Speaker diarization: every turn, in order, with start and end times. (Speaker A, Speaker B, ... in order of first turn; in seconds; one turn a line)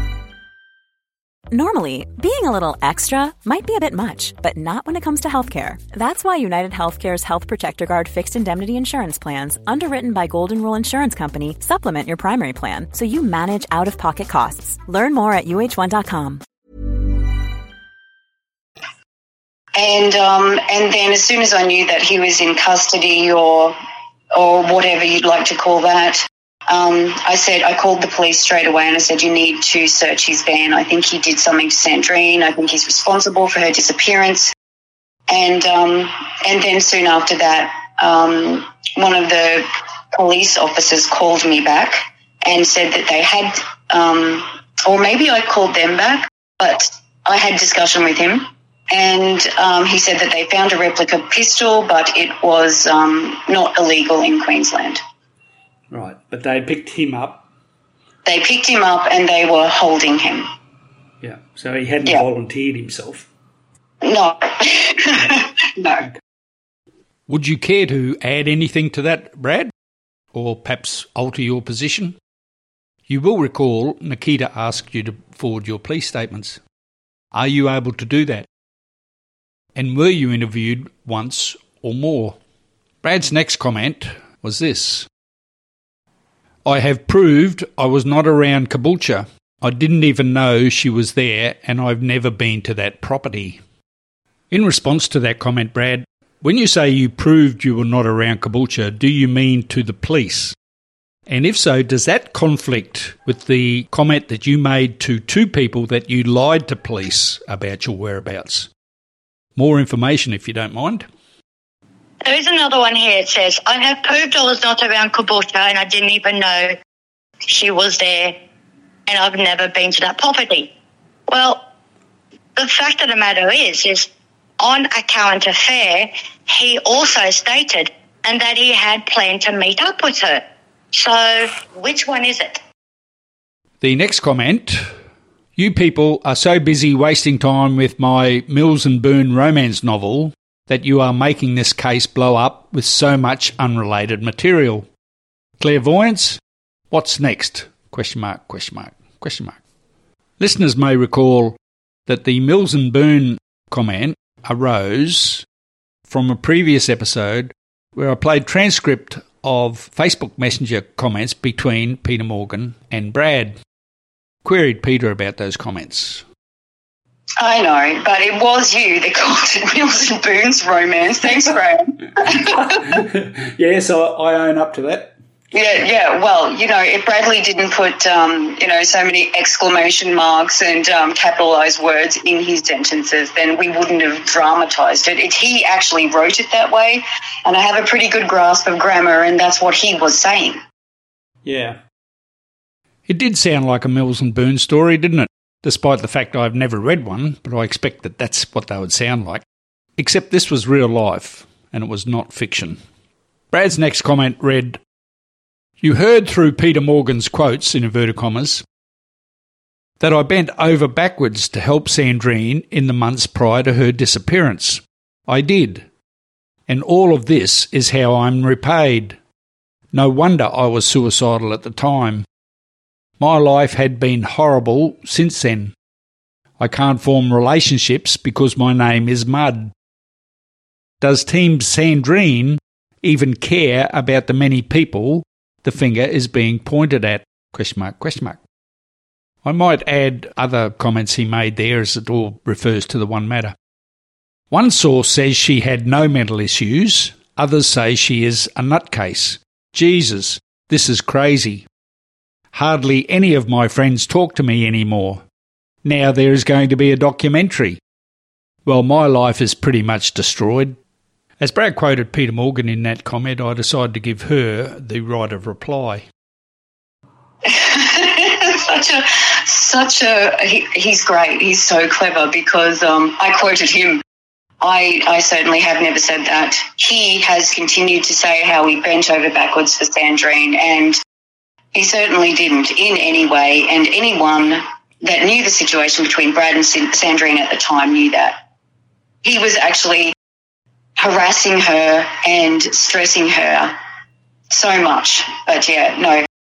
Speaker A: 1.5-16.4
Speaker B: 19.8-23.8
Speaker B: 24.3-34.5
Speaker B: 35.3-55.0
Speaker C: 55.9-57.4
Speaker B: 58.2-60.5
Speaker C: 61.2-63.3
Speaker B: 64.0-66.0
Speaker C: 67.3-69.7
Speaker C: 70.3-72.2
Speaker C: 73.1-76.6
Speaker C: 77.3-78.5
Speaker C: 79.7-82.4
Speaker C: 83.0-85.1
Speaker C: 86.6-93.6
Speaker C: 94.5-100.5
Speaker C: 101.3-108.7
Speaker C: 109.5-111.0
Speaker D: 112.2-116.8
Speaker D: 117.4-118.3
Speaker D: 119.1-120.7
Speaker D: 121.3-121.6
Speaker D: 122.5-124.1
Speaker D: 124.6-130.4
Speaker D: 130.9-132.6
Speaker C: 133.8-134.9
Speaker C: 135.6-144.9
Speaker C: 145.6-149.6
Speaker C: 150.4-155.4
Speaker C: 156.1-163.6
Speaker C: 164.4-166.2
Speaker B: 167.4-172.9
Speaker C: 172.2-175.1
Speaker B: 175.5-190.6
Speaker C: 191.4-191.8
Speaker C: 193.1-199.4
Speaker C: 200.0-202.8
Speaker C: 203.5-204.8
Speaker C: 205.8-208.6
Speaker C: 210.0-215.8
Speaker C: 216.7-219.2
Speaker C: 219.9-222.2
Speaker C: 223.2-225.7
Speaker C: 226.6-229.7
Speaker C: 231.0-238.4
Speaker C: 239.4-243.5
Speaker C: 244.5-251.7
Speaker C: 252.5-255.2
Speaker C: 255.8-257.8
Speaker C: 258.6-260.8
Speaker C: 261.4-266.1
Speaker B: 267.4-274.0
Speaker B: 274.6-281.0
Speaker B: 281.7-288.4
Speaker B: 289.2-290.1
Speaker B: 291.0-293.7
Speaker B: 294.5-296.2